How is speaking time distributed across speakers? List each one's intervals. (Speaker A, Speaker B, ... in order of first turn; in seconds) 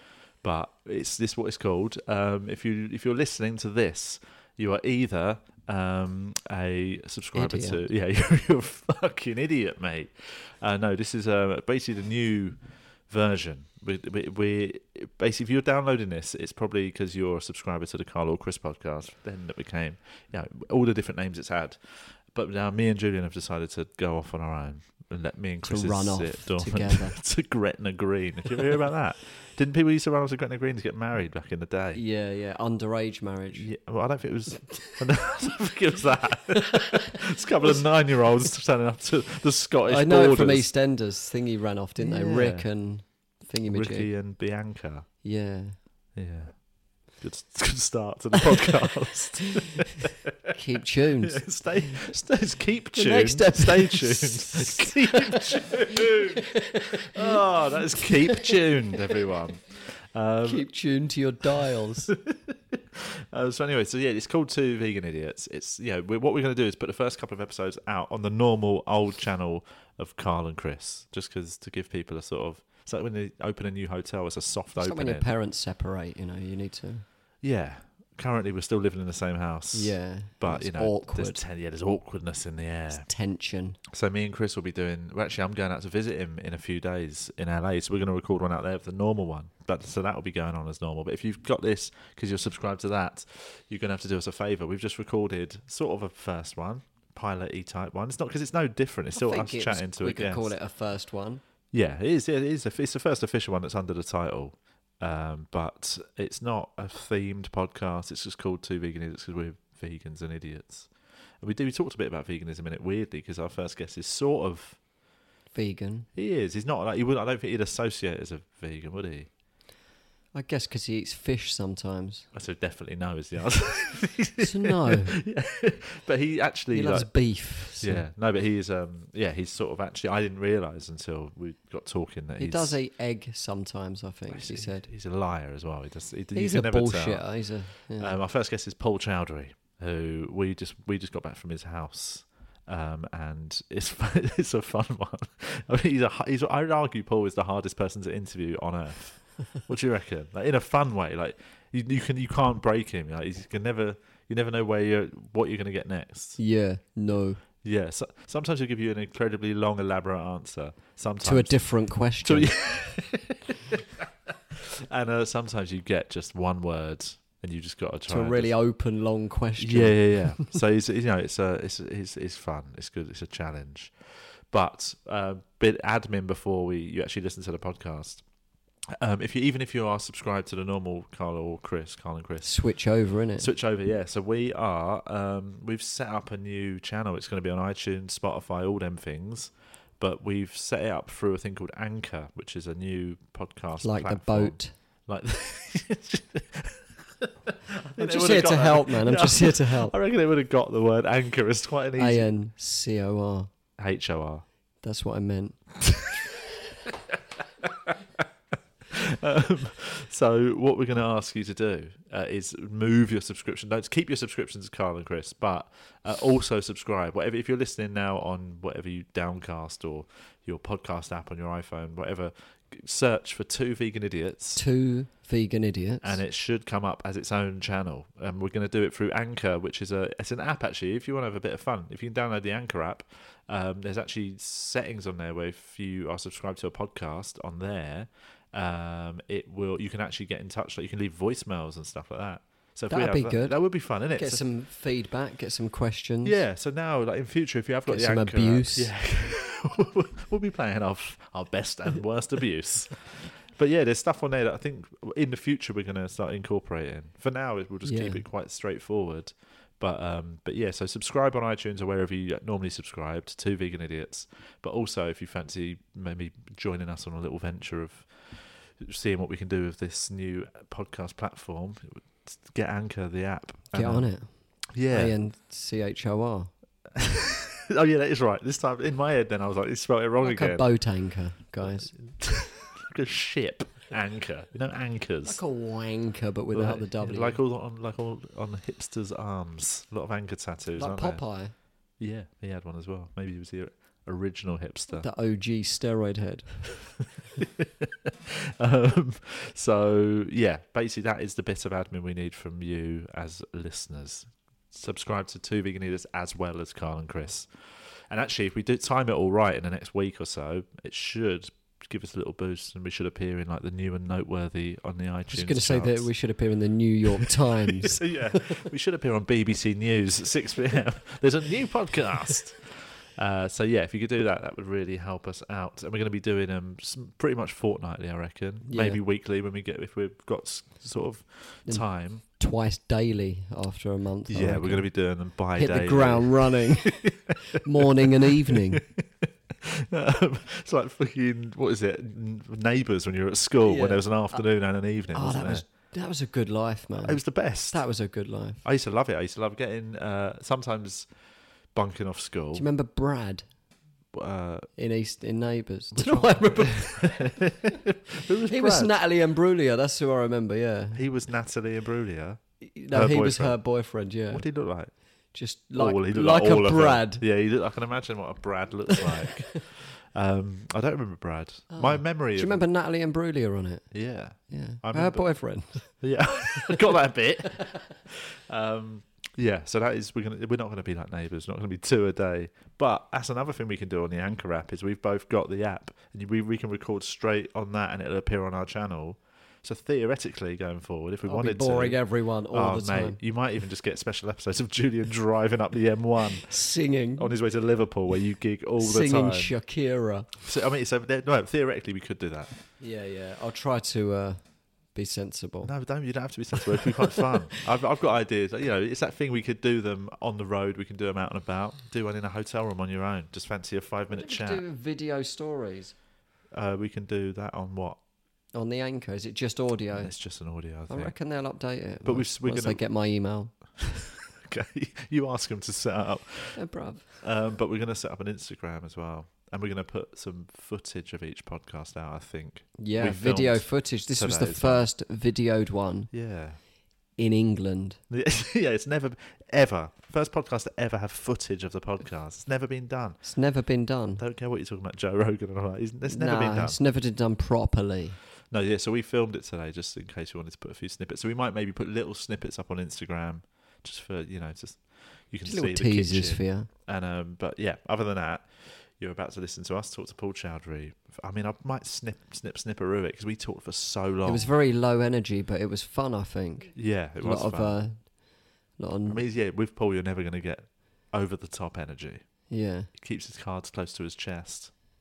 Speaker A: 0.4-32.0, 33.6-40.7, 42.0-42.7, 43.7-45.0, 46.1-46.6, 47.2-50.5, 51.2-60.7, 62.1-75.2, 77.4-83.1, 83.9-100.5, 101.7-110.9, 111.4-114.8, 116.1-119.3, 122.3-127.1, 127.8-132.8, 134.3-137.2, 138.0-156.4, 157.6-161.7, 162.2-168.5, 169.6-178.2, 179.0-182.5, 183.4-202.3, 203.8-204.4, 205.8-206.3, 207.6-208.0, 208.9-224.6, 226.0-244.4, 246.2-274.1, 274.7-275.1, 276.9-280.6, 281.9-285.4, 286.5-291.2, 292.0-295.1, 297.4-307.5, 308.1-316.1, 317.2-332.2, 334.3-345.6, 347.0-347.8, 348.6-351.1, 351.7-352.6, 354.1-354.7, 355.9-358.9, 360.9-362.4, 362.9-363.6, 364.3-364.9, 365.8-372.6, 373.9-375.2, 376.0-392.0, 392.5-396.5, 397.2-399.5, 400.4-402.5, 405.6-414.6, 416.5-418.0, 419.9-421.1, 422.0-422.8, 423.8-426.6, 427.2-434.9, 436.1-436.6, 438.1-443.2, 444.2-446.8, 448.5-464.5, 466.7-467.8, 469.1-472.2, 473.0-474.7
Speaker B: 7.3-7.8, 25.6-27.1, 31.9-33.7, 36.5-37.1, 39.9-44.1, 45.2-45.8, 50.5-52.0, 52.9-59.3, 60.4-62.1, 74.8-77.0, 79.7-81.4, 83.0-83.8, 99.1-101.4, 115.5-116.1, 120.3-122.2, 124.4-125.2, 126.7-128.0, 132.4-134.8, 136.3-138.2, 156.4-157.4, 161.2-162.6, 168.1-170.5, 182.4-183.5, 193.8-194.7, 198.0-199.9, 202.0-203.5, 204.8-205.6, 224.6-226.2, 242.9-246.4, 247.9-248.9, 257.8-258.2, 273.7-274.3, 274.9-276.5, 280.2-281.9, 285.2-287.4, 290.8-291.5, 294.9-296.6, 315.3-318.6, 328.6-329.0, 331.7-334.9, 335.5-337.0, 337.5-338.8, 343.6-344.4, 345.1-348.6, 352.5-353.4, 354.8-357.3, 358.5-361.0, 362.6-364.4, 365.3-367.2, 368.9-369.6, 371.7-373.9, 374.5-375.9, 391.2-393.2, 396.4-397.3, 398.8-400.3, 402.8-404.4, 404.9-405.7, 414.1-415.9, 418.5-420.1, 420.9-423.5, 426.6-427.1, 432.8-436.1, 437.2-438.0, 443.2-444.2, 446.1-448.2, 455.4-456.7, 464.2-468.1, 468.8-469.2, 472.5-472.9